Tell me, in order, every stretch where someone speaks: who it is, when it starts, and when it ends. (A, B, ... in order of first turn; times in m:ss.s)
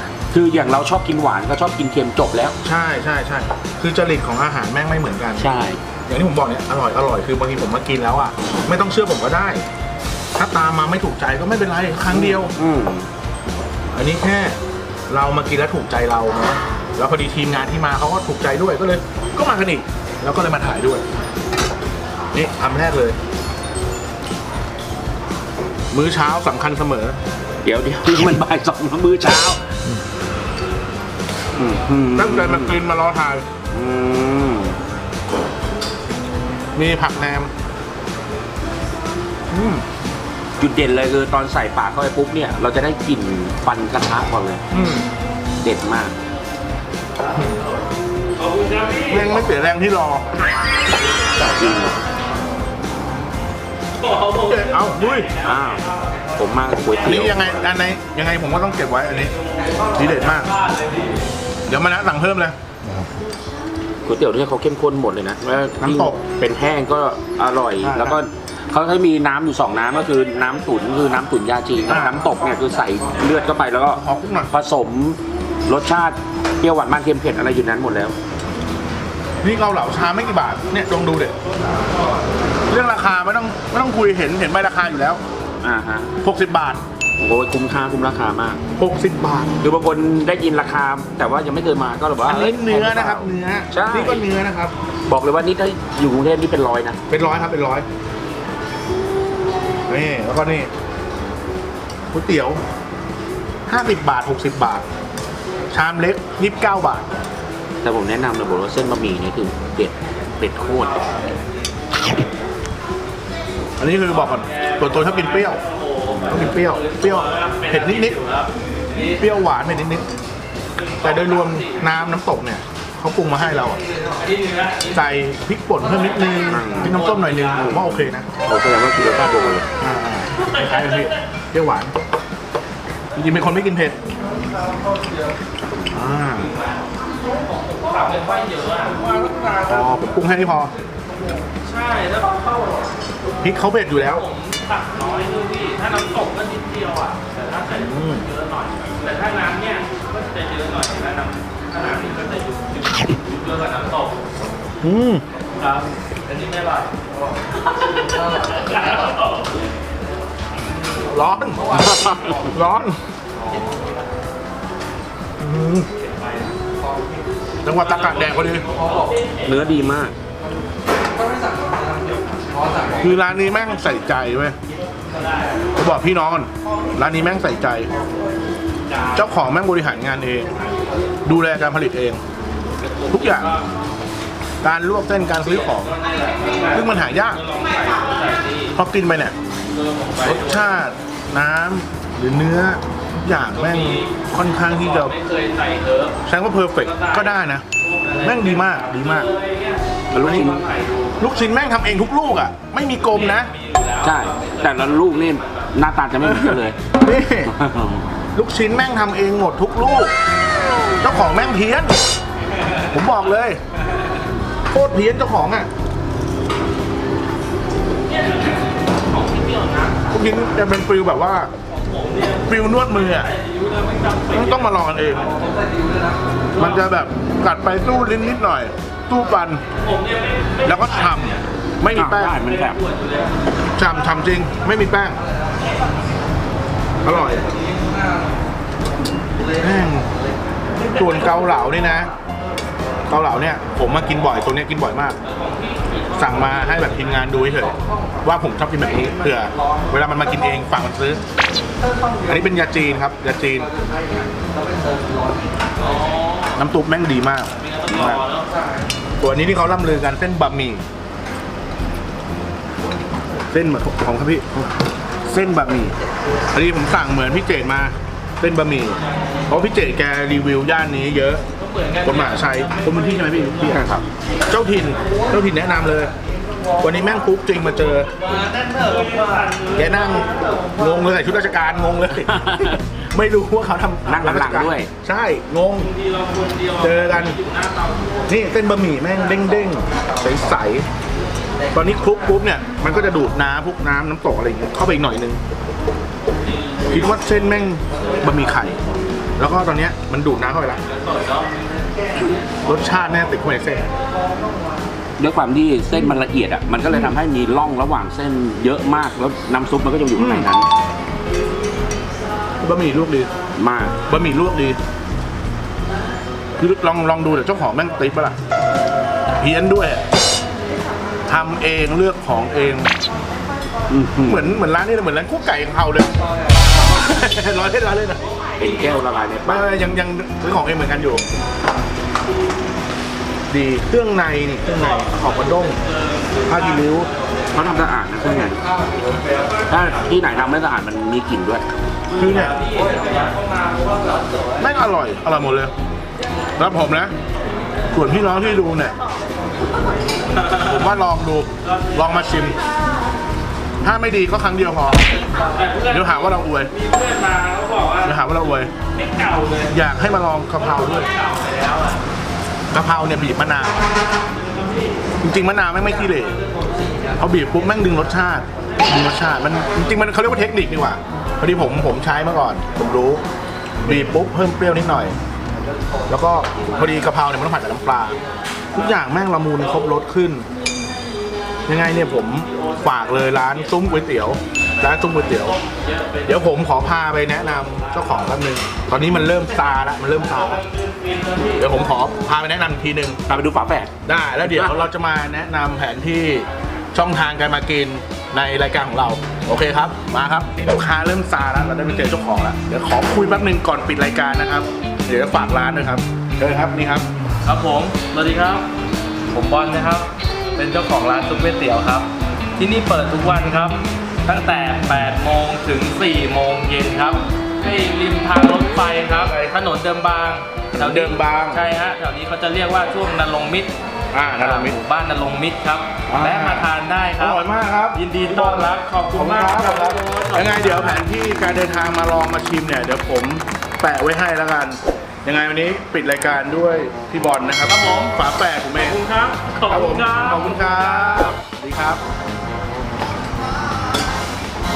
0:00.3-0:02.6 A
0:02.6-0:05.5 B
0:05.4-0:05.8 A
0:06.1-0:09.7 B
0:10.4-0:12.6 B
0:12.1-0:13.1 A
0:13.9-0:14.6 B
0:15.1-0:21.0 B
0:22.3-0:23.2 B
0:25.9-0:27.2 B
0:27.6-0:29.6 A
0:31.6-0:32.8 A
0:32.2-0:33.5 B
0:33.7-0:34.8 A
0:36.8-0:37.5 B
0:39.5-0:39.8 B
0:40.6-0:44.6 A
0:44.7-0:45.1 B
0:45.6-0:46.2 A
0:47.4-0:47.6 B
0:48.4-0:49.3 C
0:49.1-0:50.3 B
0:51.4-0:52.0 A
0:54.0-0:55.8 C
0:54.4-0:55.3 B
0:55.4-0:55.8 A
0:56.4-0:57.6 A
0:57.0-0:59.3 B
0:59.6-1:01.1 C
1:00.0-1:00.5 B
1:01.7-1:03.0 B
1:04.0-1:18.2 A
1:05.8-1:06.2 B
1:07.8-1:08.2 B
1:11.9-1:12.3 B
1:13.9-1:14.5 B
1:19.4-1:21.4 B
1:22.7-1:25.2 B
1:25.6-1:26.1 A
1:26.2-1:26.8 B
1:27.2-1:28.6 A
1:28.8-1:29.5 B
1:29.6-1:34.2 A
1:32.2-1:34.7 B
1:35.1-1:37.0 A
1:37.1-1:37.9 B
1:39.9-1:40.7 B
1:42.1-1:42.6 B
1:43.7-1:44.9 B
1:45.7-1:47.1 B
1:47.8-1:51.2 A
1:53.8-1:55.6 B
1:54.2-1:58.5 C
1:56.1-1:56.6 A
1:56.3-1:58.2 B
1:59.1-2:00.0 B
2:00.8-2:01.8 C
2:01.0-2:03.8 B
2:04.2-2:04.9 C
2:04.9-2:08.3 B
2:06.5-2:09.7 A
2:06.7-2:07.7 C
2:09.5-2:11.9 B
2:13.2-2:14.0 B
2:15.8-2:16.5 A
2:16.4-2:16.9 C
2:17.5-2:19.3 C
2:19.6-2:20.7 B
2:21.6-2:22.4 C
2:23.4-2:24.3 B
2:24.1-2:34.2 C
2:27.7-2:28.3 B
2:34.8-2:35.2 B
2:35.6-2:36.9 C
2:37.8-2:39.5 C
2:41.1-2:43.0 B
2:42.0-2:42.5 A
2:45.4-2:45.9 B
2:46.0-2:46.5 C
2:47.6-2:48.7 B
2:47.9-2:49.4 C
2:49.4-2:50.2 A
2:53.0-2:54.6 B
2:55.1-2:55.6 C
2:55.8-2:57.9 B
2:59.1-3:00.5 B
3:01.2-3:02.2 B
3:02.8-3:03.6 C
3:03.1-3:03.6 B
3:04.6-3:06.0 B
3:05.4-3:08.7 C
3:06.7-3:07.4 B
3:08.8-3:09.4 B
3:09.7-3:10.7 C
3:10.2-3:15.2 B
3:13.6-3:16.2 C
3:16.3-3:17.7 B
3:16.8-3:21.2 C
3:18.2-3:19.3 B
3:20.1-3:20.6 A
3:20.2-3:20.6 B
3:21.2-3:23.5 B
3:23.1-3:25.7 C
3:24.0-3:26.8 A
3:26.2-3:27.5 B
3:27.5-3:28.1 A
3:28.4-3:30.1 B
3:31.0-3:32.0 B
3:32.9-3:33.6 B
3:34.7-3:35.7 B
3:38.1-3:40.1 C
3:40.1-3:41.5 B
3:41.8-3:44.7 C
3:42.4-3:43.3 B
3:44.3-3:45.3 B
3:46.6-3:49.6 B
3:49.8-3:51.4 C
3:50.6-3:52.4 B
3:51.9-3:52.8 A
3:52.4-3:53.3 C
3:53.8-3:55.2 B
3:57.0-3:57.5 B
3:59.6-4:00.1 B
4:00.9-4:02.1 B
4:03.1-4:05.2 B
4:05.2-4:07.7 C
4:06.2-4:11.2 B
4:12.2-4:13.7 B
4:15.8-4:16.6 C
4:16.6-4:18.2 B
4:17.5-4:18.5 C
4:19.2-4:20.8 B
4:23.5-4:24.7 B
4:25.3-4:26.0 B
4:26.5-4:31.4 B
4:31.6-4:33.5 C
4:32.0-4:33.9 B
4:33.6-4:34.0 A
4:34.5-4:36.1 B
4:36.8-4:38.1 B
4:38.5-4:39.9 C
4:39.7-4:45.9 B
4:42.2-4:42.8 A
4:44.1-4:44.9 A
4:45.8-4:48.2 C
4:46.8-4:47.4 B
4:48.3-4:50.9 B
4:51.7-4:55.4 B
4:56.6-4:57.1 C
4:56.9-4:58.8 B
4:59.4-5:00.8 B
5:00.9-5:01.5 C
5:02.6-5:03.9 B
5:05.2-5:10.7 A
5:10.2-5:10.5 B
5:12.6-5:13.3 B
5:13.6-5:14.0 A
5:14.1-5:14.8 B
5:16.6-5:18.4 B
5:19.4-5:20.0 B
5:21.3-5:22.9 B
5:23.9-5:24.5 A
5:24.2-5:26.1 B
5:26.8-5:28.2 B
5:28.6-5:29.7 A
5:29.5-5:31.2 B
5:33.5-5:35.8 B
5:34.7-5:37.2 C
5:36.5-5:37.1 B
5:37.5-5:38.6 A
5:39.7-5:41.6 A
5:42.1-5:42.6 B
5:42.2-5:44.5 C
5:44.6-5:45.7 B
5:46.6-5:47.1 B
5:47.9-5:49.0 B
5:50.4-5:50.7 C
5:50.6-5:52.6 B
5:51.6-5:52.5 C
5:53.8-5:55.2 B
5:55.4-5:58.2 C
5:55.9-5:56.7 B
5:58.0-5:58.7 B
5:59.0-5:59.7 C
5:59.7-6:01.1 B
6:00.8-6:02.0 C
6:02.7-6:03.8 B
6:04.3-6:05.0 C
6:05.2-6:06.4 B
6:07.2-6:13.2 B
6:13.8-6:15.2 B
6:16.1-6:18.2 B
6:18.7-6:20.5 B
6:21.7-6:25.6 B
6:22.3-6:24.4 C
6:25.1-6:26.4 C
6:26.2-6:30.6 B
6:27.6-6:28.1 C
6:30.3-6:31.7 C
6:31.6-6:33.2 B
6:33.3-6:34.9 A
6:34.0-6:47.1 B
6:47.4-6:48.7 C
6:49.3-7:03.7 C
6:59.1-6:59.5 B
7:00.7-7:01.7 B
7:04.1-7:04.8 B
7:04.4-7:07.4 C
7:06.1-7:19.0 B
7:08.0-7:11.0 C
7:17.7-7:18.2 C
7:18.8-7:21.4 C
7:19.7-7:22.0 B